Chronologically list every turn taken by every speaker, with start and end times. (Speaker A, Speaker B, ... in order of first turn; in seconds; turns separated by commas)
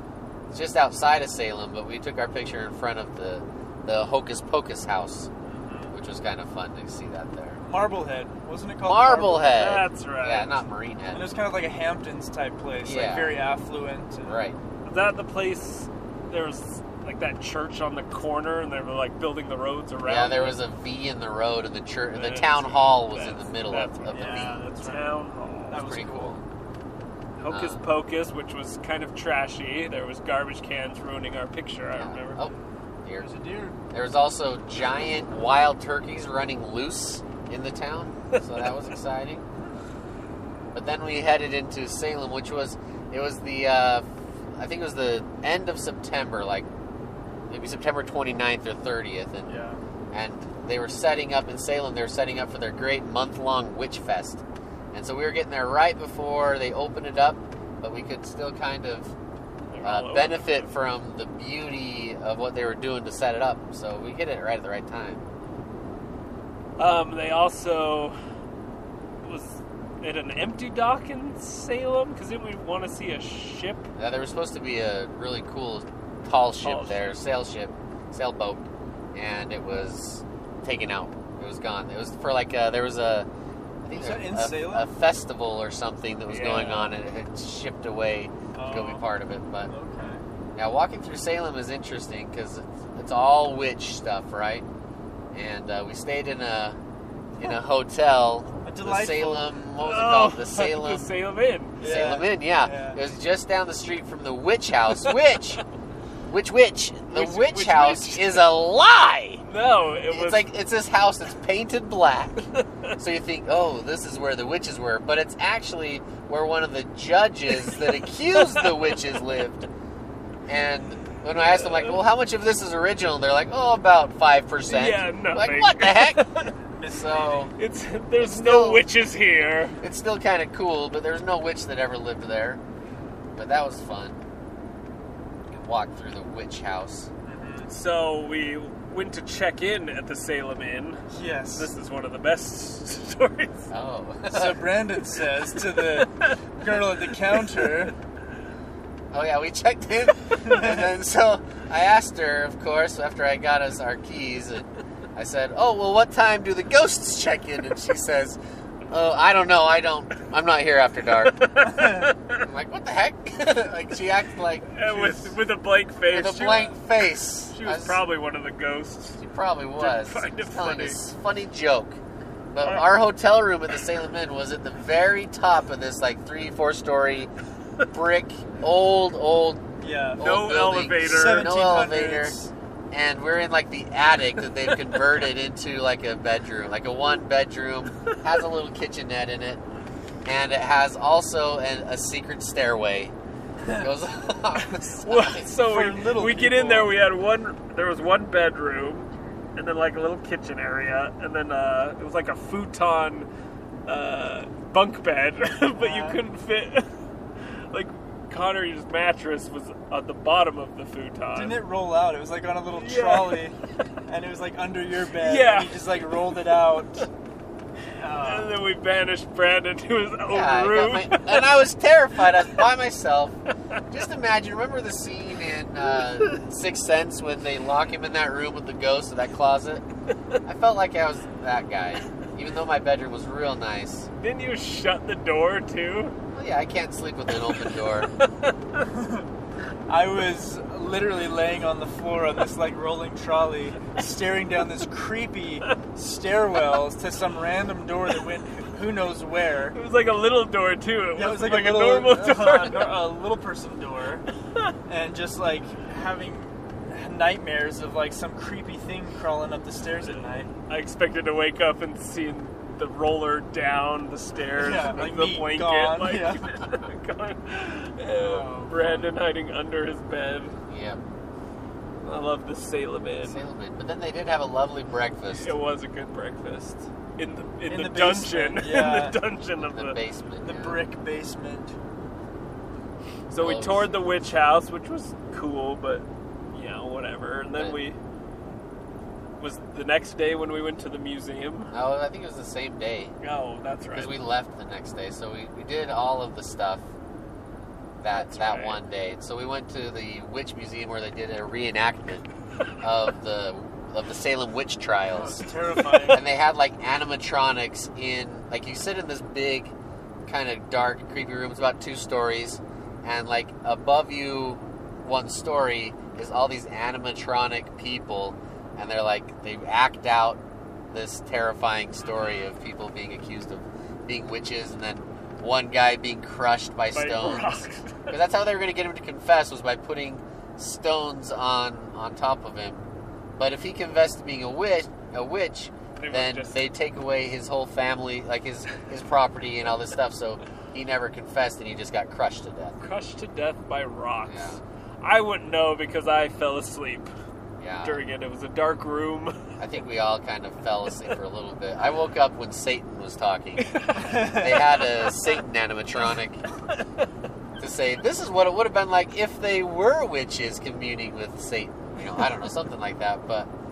Speaker A: 0.5-5.3, Speaker B: 5.4-5.9, Speaker A: 5.9-7.6, Speaker B: 7.6-9.5, Speaker A: 8.8-11.3, Speaker C: 9.5-10.6, Speaker B: 11.1-14.4, Speaker A: 12.8-13.4, Speaker A: 14.2-14.6, Speaker C: 14.8-20.6, Speaker A: 20.0-24.6, Speaker C: 22.1-25.8, Speaker B: 24.1-25.2, Speaker B: 25.7-26.4, Speaker A: 25.7-26.4, Speaker C: 27.4-32.5, Speaker A: 27.5-27.8, Speaker A: 32.0-32.5, Speaker B: 33.2-33.8, Speaker A: 33.9-39.4, Speaker C: 38.3-38.7, Speaker A: 40.7-46.7, Speaker A: 47.5-49.6, Speaker B: 49.5-49.8, Speaker A: 50.1-54.4, Speaker A: 54.9-59.1, Speaker C: 59.7-60.7, Speaker A: 59.8-65.2, Speaker C: 66.8-68.2, Speaker C: 69.2-73.9, Speaker A: 74.0-83.3, Speaker C: 76.6-77.2, Speaker A: 83.8-89.7, Speaker B: 83.9-84.9, Speaker C: 86.3-86.9, Speaker B: 88.5-89.0, Speaker B: 89.7-90.2, Speaker A: 90.5-94.7, Speaker A: 95.3-96.8, Speaker A: 97.3-101.1, Speaker B: 98.6-99.5, Speaker C: 99.8-101.8, Speaker B: 101.8-103.0, Speaker A: 101.8-105.6, Speaker A: 106.3-109.4, Speaker C: 107.1-108.5, Speaker C: 109.4-110.5, Speaker A: 110.1-112.5, Speaker C: 112.5-112.9, Speaker A: 113.0-119.7, Speaker C: 118.3-119.0, Speaker A: 120.5-126.2, Speaker C: 121.5-122.0, Speaker C: 124.7-126.5, Speaker B: 126.7-127.5, Speaker A: 126.9-127.5, Speaker C: 127.5-129.8, Speaker A: 128.2-128.8, Speaker A: 129.8-132.6, Speaker A: 133.3-134.2, Speaker A: 135.5-137.1, Speaker B: 137.2-137.7, Speaker C: 137.7-143.7, Speaker B: 141.1-141.7, Speaker A: 143.7-144.7, Speaker B: 144.3-147.9, Speaker C: 145.8-146.4, Speaker C: 147.2-147.9, Speaker A: 149.1-158.4, Speaker B: 150.4-150.8, Speaker A: 158.9-161.5, Speaker C: 161.2-162.5, Speaker A: 162.4-165.3, Speaker C: 164.7-166.8, Speaker A: 166.1-168.0, Speaker C: 167.5-169.2, Speaker A: 169.2-172.0, Speaker C: 169.8-171.0, Speaker A: 172.5-177.3, Speaker C: 172.6-173.0, Speaker A: 177.9-179.7, Speaker B: 179.8-180.2, Speaker A: 180.2-182.3, Speaker C: 180.2-181.5, Speaker B: 181.0-182.5, Speaker A: 182.9-189.6, Speaker A: 190.2-193.1, Speaker A: 193.7-195.5, Speaker C: 195.0-203.3, Speaker B: 195.6-196.9, Speaker C: 203.9-206.9, Speaker B: 205.7-206.2, Speaker C: 207.7-211.6, Speaker B: 211.3-217.1, Speaker C: 212.7-213.4, Speaker C: 215.2-216.1, Speaker B: 218.0-218.5, Speaker C: 218.2-221.6, Speaker A: 220.3-223.4, Speaker A: 223.9-229.8, Speaker A: 230.4-234.1, Speaker C: 234.2-236.2, Speaker A: 236.3-238.1, Speaker C: 237.5-238.8, Speaker B: 238.8-239.2, Speaker B: 239.9-249.8, Speaker C: 249.7-252.9, Speaker B: 251.2-254.3, Speaker B: 254.9-260.5, Speaker C: 260.1-270.6, Speaker B: 264.6-266.5, Speaker B: 268.1-269.1, Speaker A: 270.7-271.0, Speaker C: 272.0-273.4, Speaker A: 273.2-275.5, Speaker C: 275.4-280.0, Speaker B: 277.7-279.2, Speaker A: 279.6-280.8, Speaker B: 280.4-281.8, Speaker C: 283.3-288.0, Speaker A: 283.3-283.9, Speaker C: 289.4-291.7, Speaker A: 291.7-293.1, Speaker C: 293.2-294.2, Speaker A: 293.9-296.8, Speaker A: 298.0-302.3, Speaker C: 298.1-298.8, Speaker A: 302.8-305.5, Speaker B: 305.1-306.3, Speaker A: 306.1-309.7, Speaker A: 310.2-342.8, Speaker C: 326.9-328.2, Speaker C: 336.0-336.6, Speaker C: 342.8-347.1, Speaker A: 344.2-344.6, Speaker A: 347.6-348.0, Speaker C: 347.8-349.4, Speaker A: 349.6-356.4, Speaker C: 353.6-354.4, Speaker B: 354.0-354.7, Speaker C: 356.7-357.1, Speaker A: 357.6-363.5